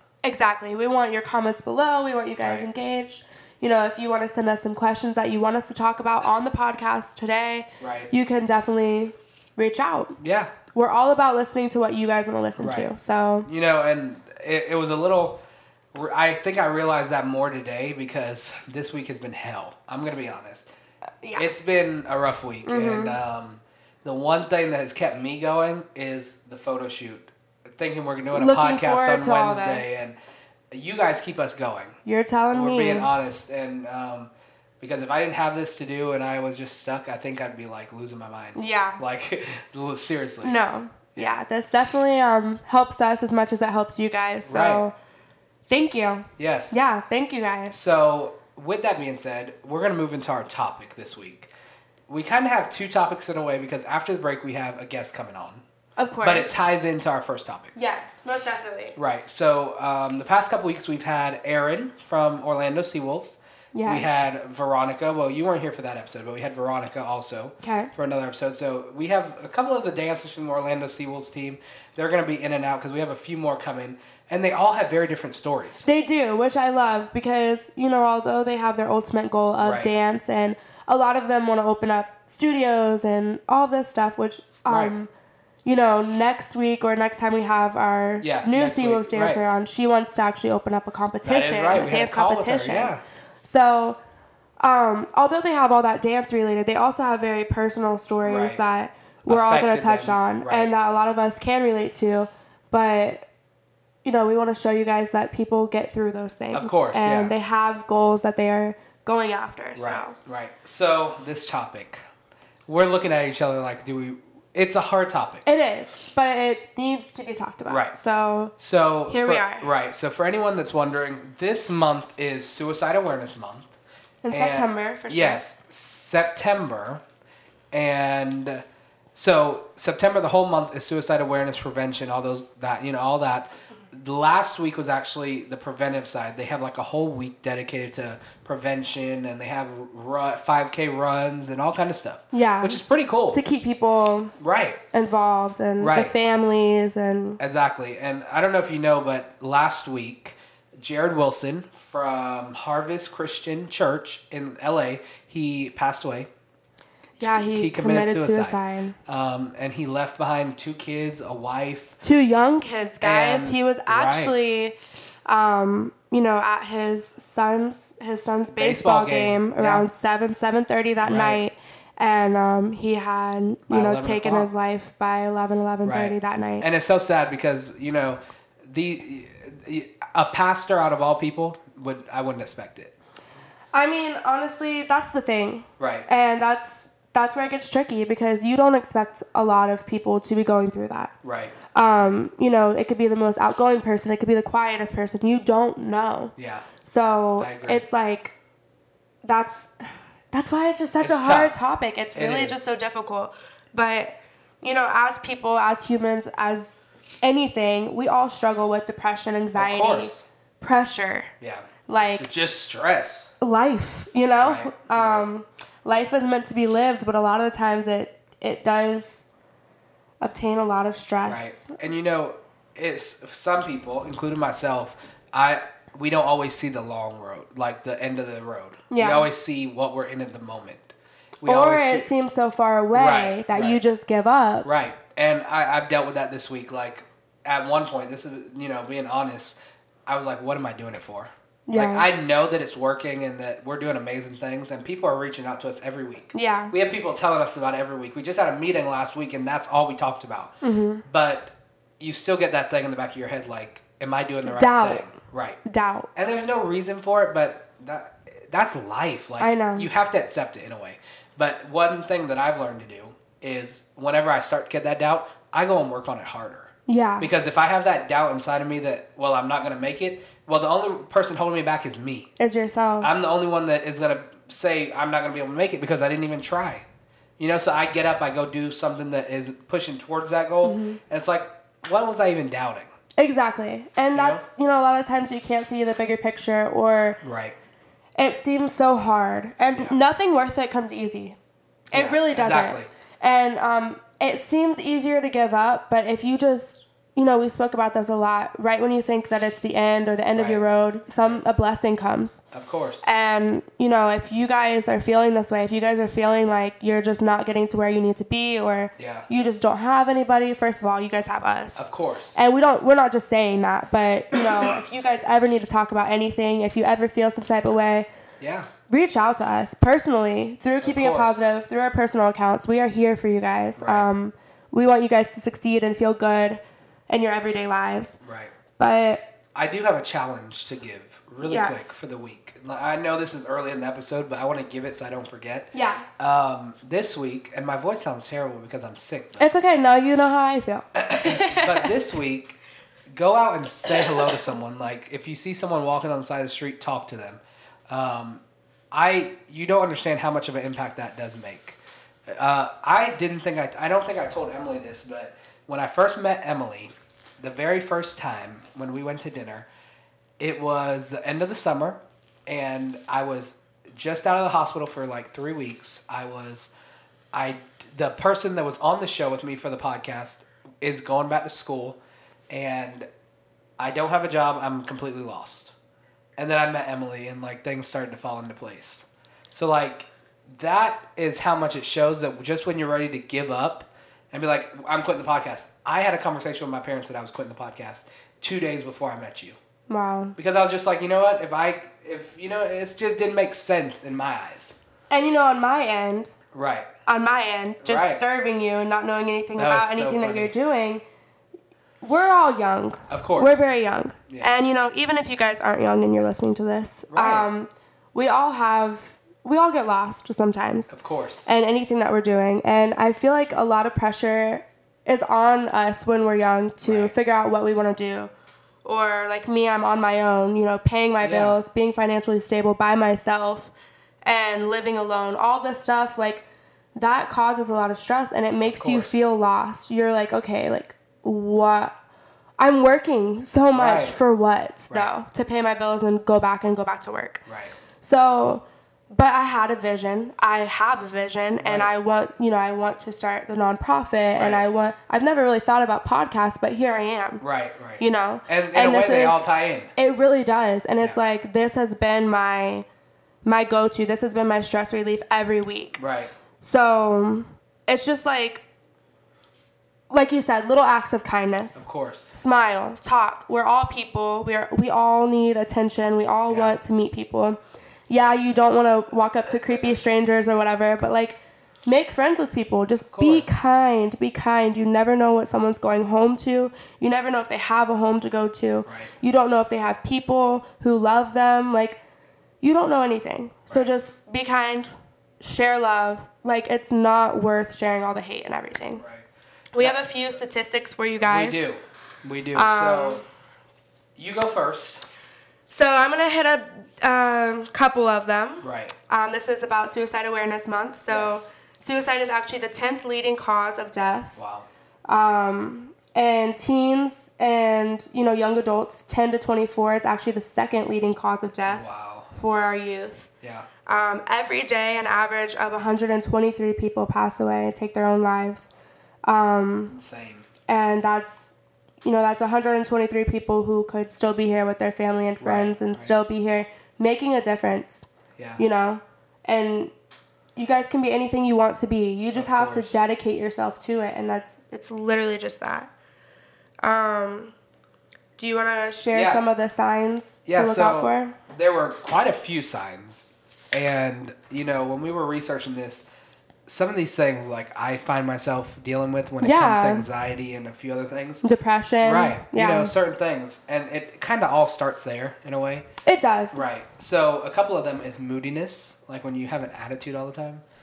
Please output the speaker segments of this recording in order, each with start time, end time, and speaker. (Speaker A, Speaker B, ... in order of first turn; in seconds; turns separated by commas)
Speaker A: 0.2-10.2, Speaker B: 2.4-2.7, Speaker B: 7.8-8.1, Speaker B: 10.2-10.5, Speaker A: 10.7-13.5, Speaker B: 12.6-12.9, Speaker B: 13.5-15.4, Speaker B: 15.9-20.7, Speaker A: 21.2-21.5, Speaker B: 21.4-30.2, Speaker A: 22.6-23.2, Speaker A: 28.3-30.0, Speaker B: 30.7-32.0, Speaker A: 32.1-33.1, Speaker B: 32.5-40.6, Speaker A: 38.6-39.0, Speaker A: 40.4-44.9, Speaker B: 44.5-44.8, Speaker A: 45.7-47.8, Speaker B: 46.4-46.8, Speaker B: 47.7-51.5, Speaker B: 52.1-55.6, Speaker A: 56.0-56.7, Speaker B: 56.2-57.7, Speaker A: 57.8-59.0, Speaker B: 59.0-75.9, Speaker A: 63.7-64.2, Speaker A: 67.6-67.9, Speaker A: 75.8-85.1, Speaker B: 79.6-79.9, Speaker B: 84.7-84.9, Speaker A: 85.7-92.9, Speaker B: 88.2-89.4, Speaker B: 91.2-93.0, Speaker A: 93.4-94.0, Speaker A: 94.6-103.3, Speaker B: 98.2-98.6, Speaker B: 99.2-100.7, Speaker A: 104.0-110.2, Speaker B: 106.5-107.3, Speaker B: 109.8-112.0, Speaker B: 112.7-115.4, Speaker A: 115.4-118.5, Speaker B: 117.7-118.0, Speaker B: 118.6-123.7, Speaker A: 119.1-119.7, Speaker A: 124.2-125.4, Speaker B: 124.3-127.0, Speaker B: 127.7-128.6, Speaker B: 129.2-143.4, Speaker A: 142.3-144.3, Speaker B: 144.4-144.8, Speaker A: 144.9-147.4, Speaker B: 145.8-146.1, Speaker B: 147.4-156.3, Speaker A: 157.2-158.9, Speaker B: 157.2-162.0, Speaker A: 162.0-176.7, Speaker B: 163.0-164.3, Speaker B: 168.6-169.9, Speaker B: 171.1-171.4, Speaker B: 173.7-174.5, Speaker B: 175.8-182.9, Speaker A: 183.7-191.1, Speaker B: 185.8-186.1, Speaker B: 191.2-191.6, Speaker A: 191.7-198.3, Speaker B: 196.4-196.7, Speaker B: 197.4-197.8, Speaker A: 199.2-211.3, Speaker B: 201.0-201.6, Speaker B: 202.1-202.6, Speaker B: 209.6-210.2, Speaker B: 211.4-213.3, Speaker A: 211.9-212.3, Speaker A: 213.4-219.2, Speaker B: 214.4-215.2, Speaker A: 220.2-221.7, Speaker B: 221.3-232.1, Speaker A: 228.9-229.3, Speaker A: 231.4-234.7, Speaker B: 232.9-233.8, Speaker B: 234.6-250.5, Speaker A: 241.7-242.1, Speaker A: 246.3-246.7, Speaker A: 250.6-251.0, Speaker B: 251.1-255.6, Speaker A: 254.4-255.1, Speaker A: 255.6-256.1, Speaker B: 256.1-272.3, Speaker A: 259.4-259.9, Speaker A: 266.9-267.3, Speaker A: 272.4-273.1, Speaker B: 273.0-276.9, Speaker B: 277.4-282.9, Speaker A: 280.6-281.0, Speaker A: 283.2-287.2, Speaker B: 284.1-284.4, Speaker B: 287.2-287.6, Speaker A: 288.2-291.4, Speaker A: 291.9-302.4, Speaker B: 291.9-292.9, Speaker B: 300.4-300.6, Speaker B: 302.5-303.0, Speaker A: 303.0-318.1, Speaker B: 309.0-309.2, Speaker B: 311.8-312.4, Speaker B: 318.4-318.7, Speaker A: 318.9-328.2, Speaker B: 320.8-321.4, Speaker B: 323.8-324.1, Speaker B: 328.2-328.5, Speaker A: 328.8-329.3, Speaker B: 329.5-339.5, Speaker A: 331.4-331.9, Speaker A: 335.7-336.1, Speaker A: 339.4-341.9, Speaker B: 340.9-342.6, Speaker B: 343.1-348.4, Speaker B: 348.9-359.7, Speaker B: 360.4-366.7, Speaker B: 367.3-372.0, Speaker B: 372.5-373.1, Speaker B: 373.8-375.7, Speaker B: 376.4-389.6, Speaker A: 389.9-390.4, Speaker B: 390.4-394.8, Speaker A: 395.1-396.3, Speaker B: 396.5-396.9, Speaker A: 397.1-401.0, Speaker B: 397.8-398.2, Speaker B: 399.6-400.5, Speaker A: 402.0-410.9, Speaker B: 403.1-403.6, Speaker B: 407.1-407.5, Speaker B: 410.9-411.4, Speaker A: 411.4-418.3, Speaker B: 416.8-417.1, Speaker A: 418.8-423.7, Speaker B: 421.2-421.6, Speaker A: 424.2-426.4, Speaker A: 426.9-431.9, Speaker B: 428.7-429.2, Speaker A: 432.6-437.4, Speaker B: 433.8-434.2, Speaker B: 437.5-437.7, Speaker A: 438.0-447.4, Speaker B: 441.6-441.9, Speaker B: 444.3-444.6, Speaker B: 447.4-449.9, Speaker A: 448.0-449.4, Speaker A: 449.9-452.9, Speaker A: 453.4-456.0, Speaker B: 456.0-456.3, Speaker A: 456.6-458.6, Speaker A: 460.1-482.0, Speaker B: 461.8-462.3, Speaker B: 466.5-466.8, Speaker B: 473.1-473.5, Speaker B: 478.9-479.1, Speaker A: 482.6-489.0, Speaker B: 488.9-489.3, Speaker A: 489.7-491.6, Speaker B: 491.2-493.2, Speaker A: 492.5-493.2, Speaker B: 494.2-495.0, Speaker A: 495.7-504.4, Speaker B: 498.6-498.9, Speaker B: 501.1-501.5, Speaker B: 504.4-504.7, Speaker A: 505.1-513.3, Speaker B: 511.7-512.3, Speaker B: 513.4-513.7, Speaker A: 513.9-518.7, Speaker A: 519.2-519.9, Speaker B: 519.9-520.5, Speaker A: 520.7-521.5, Speaker A: 522.0-528.1, Speaker B: 525.4-526.1, Speaker A: 528.6-529.9, Speaker A: 530.6-535.9, Speaker B: 532.3-533.0, Speaker A: 536.8-537.5, Speaker A: 538.4-541.4, Speaker B: 539.1-539.4, Speaker B: 540.5-546.1, Speaker B: 546.7-551.4, Speaker A: 549.4-550.1, Speaker A: 551.4-552.9, Speaker B: 552.0-555.9, Speaker A: 556.0-556.6, Speaker B: 556.5-560.6